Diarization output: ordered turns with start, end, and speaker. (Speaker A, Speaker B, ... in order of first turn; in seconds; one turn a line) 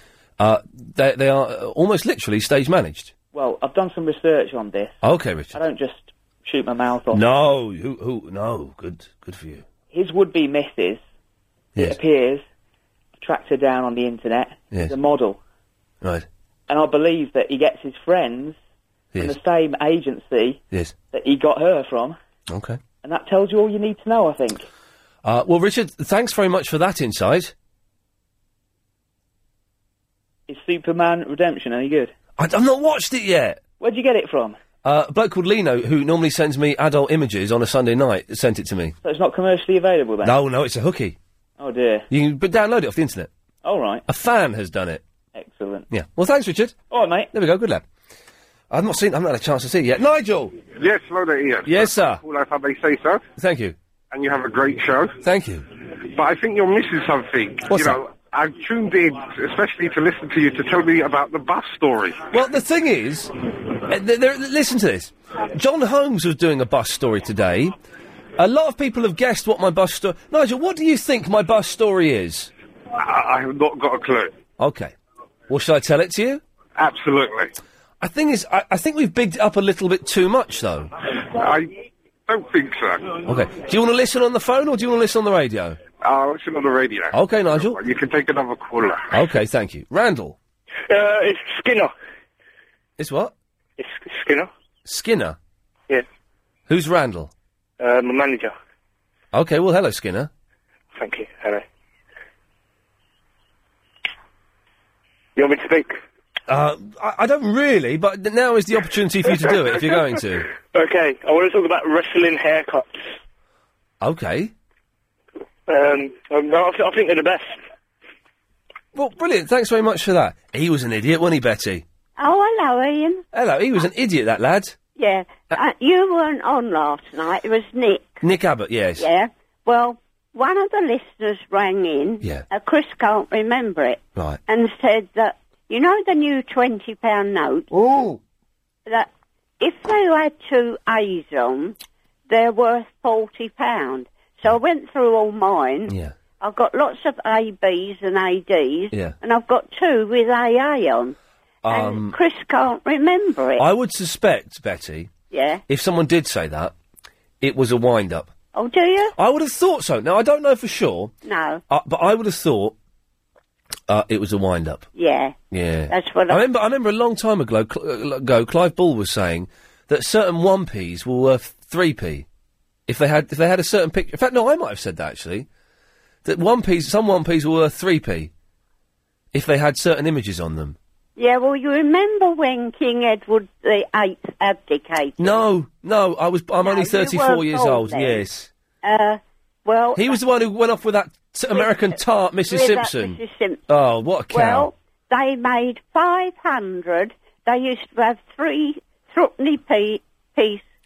Speaker A: 0.4-3.1
Speaker B: 3.3-5.0
Speaker A: 5.0-5.6
Speaker B: 5.5-7.2
Speaker A: 7.1-9.7
Speaker B: 9.9-11.0
Speaker B: 11.8-12.4
Speaker B: 13.2-15.4
Speaker B: 16.7-18.6
Speaker B: 19.2-22.2
Speaker A: 22.5-22.8
Speaker B: 23.0-24.7
Speaker A: 25.2-27.5
Speaker B: 30.5-32.1
Speaker A: 32.4-33.6
Speaker B: 33.8-34.6
Speaker A: 34.8-39.0
Speaker B: 39.0-40.4
Speaker A: 40.2-41.2
Speaker B: 41.6-42.1
Speaker A: 42.1-43.3
Speaker B: 43.6-44.0
Speaker A: 44.1-45.0
Speaker B: 45.3-45.9
Speaker A: 45.9-46.8
Speaker B: 46.9-47.3
Speaker A: 47.3-47.8
Speaker A: 48.7-50.6
Speaker C: 50.7-53.2
Speaker A: 51.7-52.2
Speaker A: 53.4-53.8
Speaker C: 54.1-55.2
Speaker A: 55.2-55.7
Speaker C: 56.1-62.3
Speaker A: 57.7-58.0
Speaker A: 62.3-63.3
Speaker A: 63.9-67.7
Speaker A: 68.4-72.5
Speaker C: 73.0-74.3
Speaker A: 74.6-74.9
Speaker A: 75.5-76.4
Speaker C: 76.8-77.5
Speaker A: 78.0-80.9
Speaker C: 81.3-81.7
Speaker C: 82.3-83.2
Speaker A: 83.2-85.8
Speaker C: 86.0-89.1
Speaker A: 87.1-87.8
Speaker A: 89.1-90.4
Speaker D: 90.9-91.9
Speaker A: 93.0-93.3
Speaker D: 93.8-94.5
Speaker A: 94.9-95.4
Speaker A: 96.7-97.3
Speaker D: 97.8-98.5
Speaker A: 99.3-100.3
Speaker D: 101.0-101.6
Speaker D: 105.4-106.0
Speaker A: 106.5-110.5
Speaker D: 110.8-112.9
Speaker A: 114.0-114.5
Speaker D: 115.7-117.5
Speaker A: 118.9-121.8
Speaker E: 122.2-123.2
Speaker A: 123.3-124.8
Speaker E: 125.0-128.2
Speaker A: 128.2-129.1
Speaker E: 129.0-137.7
Speaker A: 132.2-132.5
Speaker A: 134.2-134.4
Speaker A: 137.7-138.2
Speaker E: 139.6-141.8
Speaker E: 142.3-151.2
Speaker A: 145.9-146.1
Speaker A: 151.7-152.2
Speaker E: 151.7-153.7
Speaker A: 153.6-155.1
Speaker E: 155.3-155.6
Speaker A: 155.7-156.7
Speaker A: 157.4-158.3
Speaker E: 158.5-159.1
Speaker A: 159.2-161.1
Speaker E: 161.2-161.6
Speaker A: 161.7-162.8
Speaker A: 163.9-164.9
Speaker E: 165.0-165.3
Speaker A: 165.5-172.3
Speaker E: 165.9-166.4
Speaker A: 172.9-175.5
Speaker A: 176.2-178.3
Speaker A: 179.3-180.8
Speaker E: 181.2-185.4
Speaker A: 185.2-188.5
Speaker E: 186.6-188.2
Speaker E: 188.8-190.2
Speaker A: 190.0-194.7
Speaker E: 191.5-191.8
Speaker E: 192.5-193.6
Speaker E: 194.3-200.6